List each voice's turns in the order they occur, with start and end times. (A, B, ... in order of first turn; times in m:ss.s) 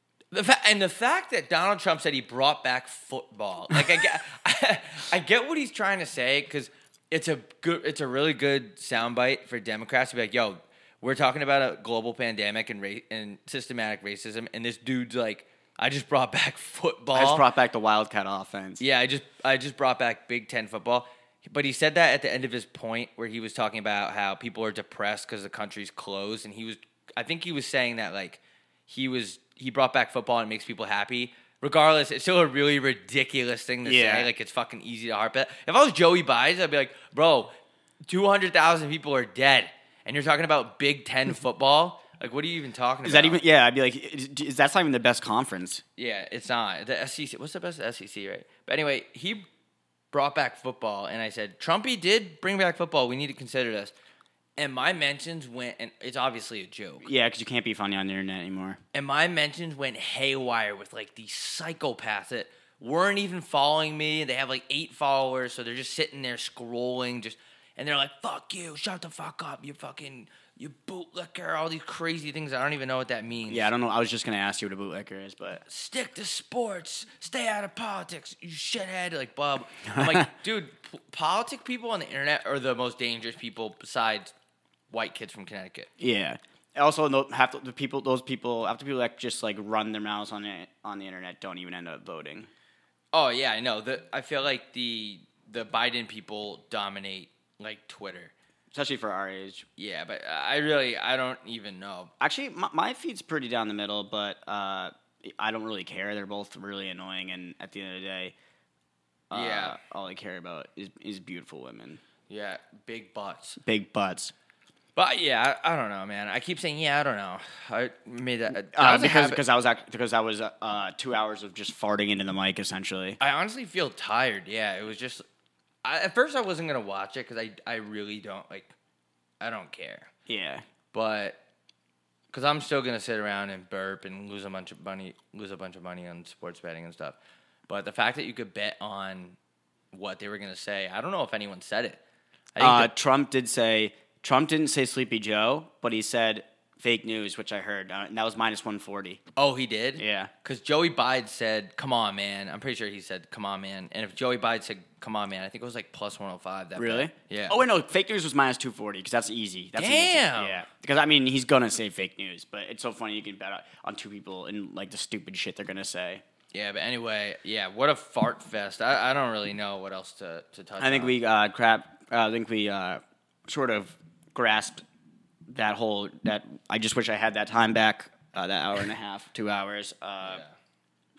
0:00.3-0:17.5 A
0:17.1-0:18.8 B
0:18.8-0:37.5 A
0:33.8-0:34.3 B
0:38.1-0:43.4 A
0:43.0-0:45.8 B
0:46.0-0:49.5 A
0:50.1-0:53.9 A
0:54.6-0:57.1 A
0:57.0-0:58.8 B
0:58.9-1:13.7 A
1:13.5-1:15.6 B
1:15.7-1:24.3 A
1:19.9-1:20.3 B
1:24.9-1:25.9 A
1:26.0-1:32.5 B
1:33.1-1:38.3 A
1:38.7-1:39.7 B
1:39.8-1:42.1 A
1:42.2-1:48.4 B
1:49.3-1:52.0 B
1:49.3-1:49.8 A
1:52.3-1:53.6 A
1:53.6-1:54.3 B
1:55.0-1:59.4 A
1:58.7-2:03.2 B
2:03.2-2:05.2 A
2:05.8-2:08.7 A
2:09.4-2:10.1 A
2:10.3-2:10.6 B
2:10.9-2:11.4 A
2:12.3-2:17.2 A
2:17.7-2:19.4 A
2:19.9-2:22.0 A
2:22.6-2:22.9 A
2:22.6-2:29.2 B
2:29.4-2:37.6 A
2:30.0-2:30.3 B
2:36.8-2:46.2 B
2:39.8-2:40.6 A
2:46.5-2:51.2 A
2:50.8-2:54.8 B
2:55.5-3:00.4 B
3:00.2-3:00.5 A